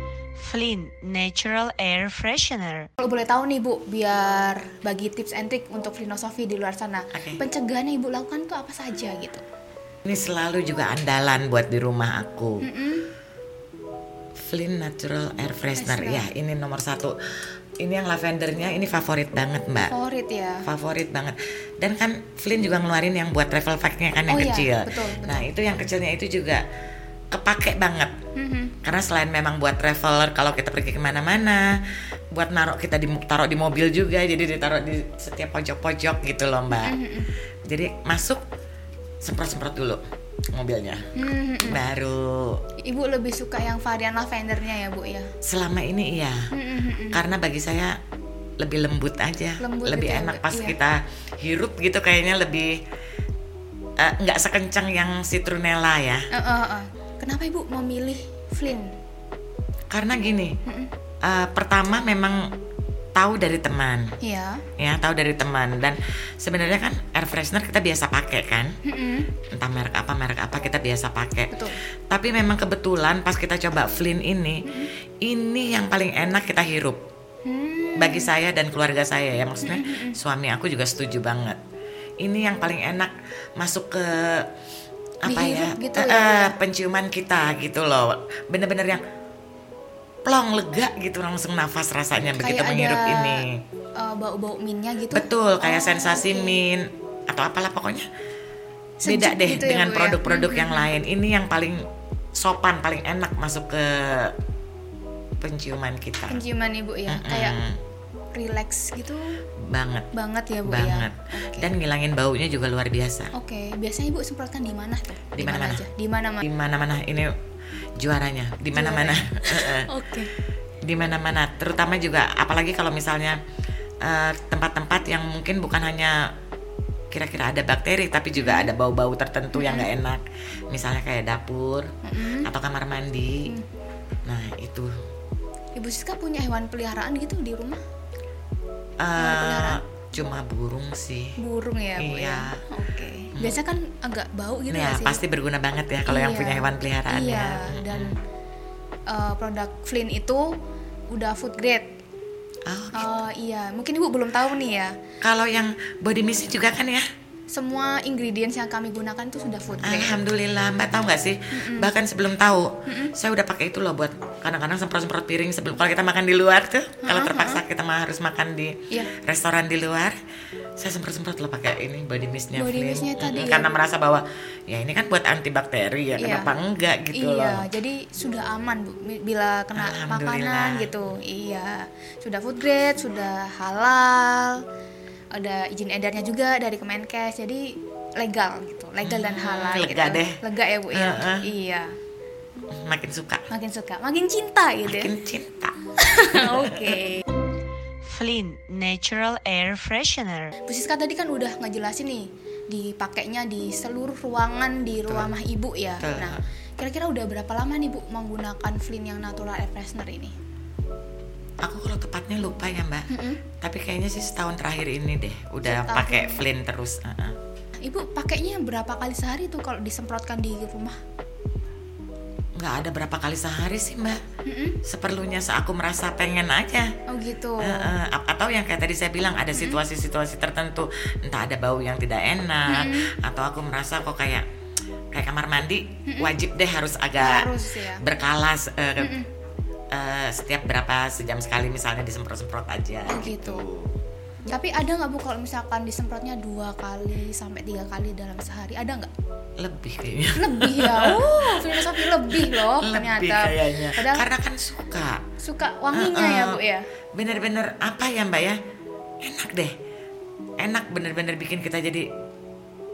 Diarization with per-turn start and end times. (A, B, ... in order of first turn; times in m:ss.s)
0:00.4-0:02.9 A
0:03.0-0:09.4 B
0:07.1-0:07.4 C
0:10.0-0:12.6 C
0:12.6-0:13.1 B
0:14.4-0:17.1 C
0:15.8-0:16.3 B
0:17.8-0:19.9 C
0:19.8-0:20.6 B
0:20.6-0:26.6 C
0:24.3-0:25.5 B
0:27.3-0:28.1 C
0:28.4-0:28.8 B
0:28.8-0:31.7 C
0:32.3-0:37.0 C
0:36.7-0:37.3 B
0:37.7-0:38.4 C
0:39.2-0:40.0 C
0:40.5-0:42.6 C
0:41.2-0:41.8 B
0:42.8-0:45.3 B
0:45.4-0:46.5 C
0:46.5-0:47.2 B
0:47.1-0:48.0 C
0:48.6-0:52.8 C
0:49.6-0:50.8 B
0:54.0-0:56.3 C
0:56.3-0:58.9 B
0:59.9-1:00.6 C
1:00.7-1:00.9 B
1:01.2-1:02.5 C
1:03.2-1:04.2 C
1:04.2-1:04.6 B
1:04.8-1:08.8 C
1:08.8-1:09.3 B
1:09.6-1:14.6 C
1:11.5-1:11.8 B
1:14.6-1:14.9 B
1:15.2-1:17.0 C
1:17.4-1:18.3 B
1:18.0-1:21.6 C
1:19.6-1:20.2 B
1:22.2-1:24.5 C
1:25.3-1:26.6 B
1:25.3-1:29.0 C
1:30.3-1:33.6 C
1:32.4-1:33.4 B
1:34.0-1:36.6 B
1:35.1-1:38.1 C
1:39.0-1:40.9 B
1:39.1-1:41.8 C
1:42.4-1:44.4 C
1:45.4-1:46.4 C
1:46.3-1:47.6 B
1:47.1-1:47.8 C
1:48.3-1:49.4 B
1:49.7-1:50.1 C
1:50.1-1:51.7 B
1:50.7-1:53.3 C
1:53.3-1:56.5 B
1:55.4-1:55.8 C
1:56.4-1:57.3 C
1:58.0-1:59.9 C
1:58.7-2:00.3 B
2:00.8-2:03.4 C
2:04.0-2:06.3 C
2:07.1-2:11.9 C
2:08.4-2:08.7 B
2:09.5-2:09.9 B
2:12.0-2:12.5 B
2:12.4-2:13.5 C
2:14.2-2:14.9 C
2:15.8-2:17.8 B
2:19.0-2:21.4 C
2:19.2-2:19.8 B
2:21.4-2:25.2 B
2:22.0-2:22.6 C
2:24.7-2:28.2 C
2:26.1-2:28.2 B
2:29.1-2:30.6 B
2:31.1-2:31.9 B
2:32.7-2:33.1 C
2:32.9-2:34.9 B
2:35.2-2:37.1 C
2:37.5-2:40.2 B
2:39.8-2:50.2 C
2:41.5-2:41.9 B
2:42.9-2:43.1 B
2:47.0-2:47.6 B
2:50.8-2:57.7 C
2:52.5-2:53.7 B
2:56.2-2:56.5 B
2:57.1-3:04.6 B
2:59.8-3:00.9 C
3:05.3-3:11.9 B
3:09.0-3:10.4 C
3:10.9-3:11.4 C
3:12.7-3:13.5 C
3:13.5-3:15.1 B
3:14.9-3:17.0 C
3:16.0-3:17.2 B
3:18.0-3:20.6 A
3:20.6-3:30.4 B
3:25.1-3:25.4 C
3:26.0-3:26.4 C
3:31.6-3:33.1 C
3:33.1-3:33.4 B
3:33.6-3:37.4 C
3:35.6-3:36.4 B
3:37.8-3:41.0 B
3:42.6-3:44.2 C
3:44.5-3:44.8 B
3:44.8-3:46.9 C
3:47.1-3:47.9 B
3:47.6-3:54.5 C
3:49.6-3:49.8 B
3:52.7-3:53.1 B
3:55.1-3:59.2 C
3:56.1-3:56.3 B
3:57.2-3:58.0 B
3:59.0-3:59.3 B
3:59.9-4:04.0 C
4:03.1-4:03.7 B
4:04.5-4:09.1 B
4:09.6-4:15.2 C
4:10.4-4:14.3 B
4:15.4-4:16.9 B
4:15.9-4:16.6 C
4:17.2-4:18.6 C
4:19.2-4:19.8 C
4:20.6-4:22.1 C